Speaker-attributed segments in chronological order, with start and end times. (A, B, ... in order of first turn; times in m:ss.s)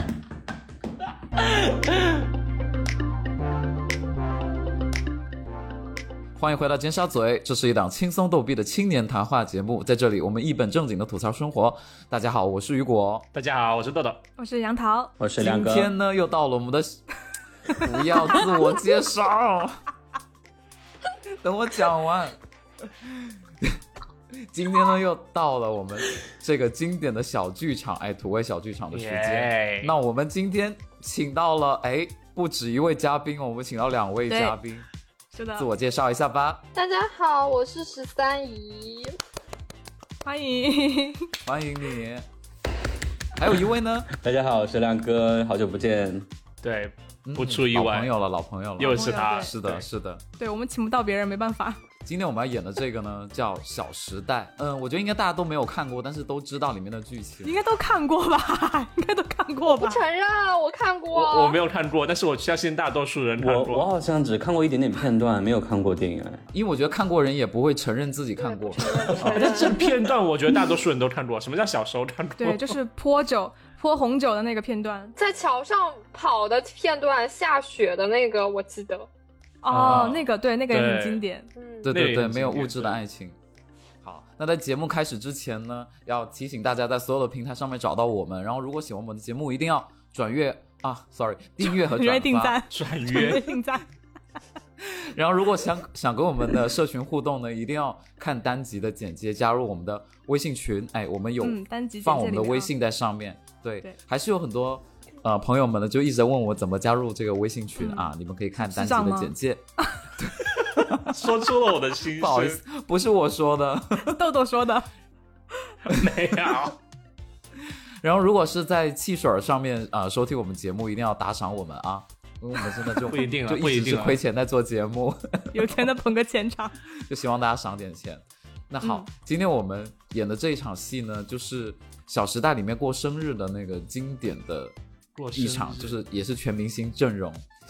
0:06.4-0:13.3 A
0:13.3-0:14.2 B
0:14.4-0:15.1 C
0:15.2-0:15.9 D
0:15.4-0:17.0 A
0:17.8-0:19.8 A
0:21.4-0:22.4 A
0:23.0-0:23.8 A
0:24.4-0:34.9 A
0:28.9-0:29.9 B
0:34.3-0:34.6 C
0:35.3-0:35.7 C
0:35.6-0:36.6 A
0:36.7-0:39.1 E
0:40.2-0:41.3 C
0:41.5-0:42.3 A
0:43.4-0:44.1 A
0:44.2-0:46.3 D
0:46.6-0:48.1 B
0:47.3-0:50.2 A
0:48.8-0:49.9 B
0:48.8-0:49.5 C
0:50.4-0:51.8 C
0:52.0-0:57.6 A
0:57.4-1:00.0 C
0:59.7-1:01.6 E
1:01.1-1:03.9 B
1:03.4-1:06.4 D
1:06.5-1:09.1 A
1:08.4-1:09.9 E
1:09.2-1:12.8 B
1:12.4-1:15.1 C
1:15.2-1:19.1 E
1:19.6-1:21.5 C
1:19.7-1:21.2 B
1:21.6-1:21.9 E
1:21.8-1:23.4 A
1:21.9-1:23.0 B
1:24.0-1:32.6 A
1:31.6-1:33.9 C
1:32.7-1:33.6 B
1:34.8-1:49.6 A
1:41.4-1:42.7 C
1:47.8-1:49.3 C
1:50.2-1:51.2 A
1:51.1-1:52.6 B
1:52.2-1:54.2 A
1:54.0-1:54.9 C
1:55.9-1:56.8 B
1:58.0-2:05.7 A
2:03.1-2:04.2 B
2:05.5-2:06.8 C
2:06.9-2:14.8 A
2:15.2-2:16.0 B
2:15.3-2:17.4 A